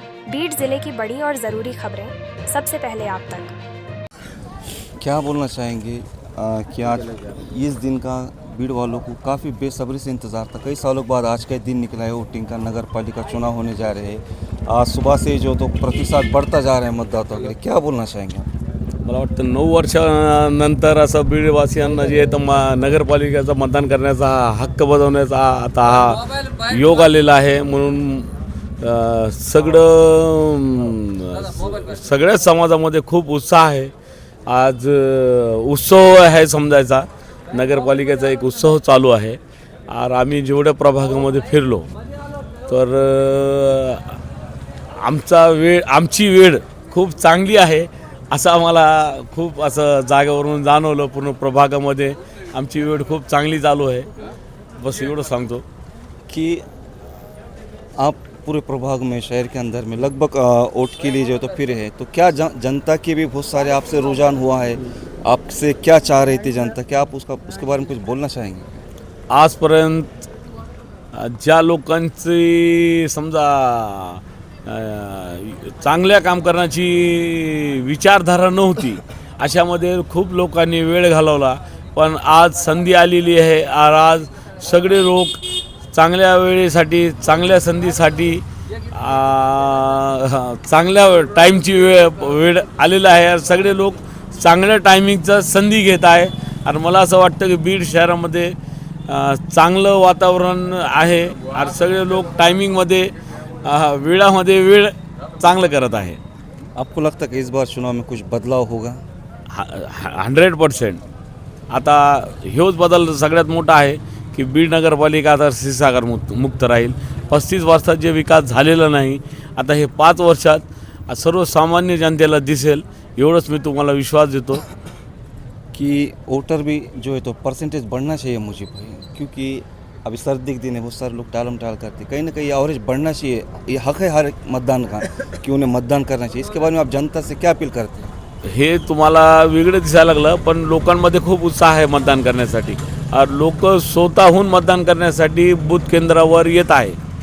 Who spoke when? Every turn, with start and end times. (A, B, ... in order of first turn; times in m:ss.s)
0:00.3-0:03.5 A
0:05.0-0:18.5 B
0:19.0-0:33.9 C
0:34.5-0:41.9 C
0:42.7-0:44.2 C
0:44.9-0:54.1 C
0:54.8-0:55.6 C
0:56.3-0:56.6 B
0:58.0-1:08.8 B
1:09.3-1:10.2 C
1:11.1-1:38.6 C
1:39.1-1:46.2 C
1:46.8-1:49.0 B
1:49.5-1:51.0 C
1:51.7-2:04.6 C
2:05.7-2:18.1 B
2:18.4-2:27.0 C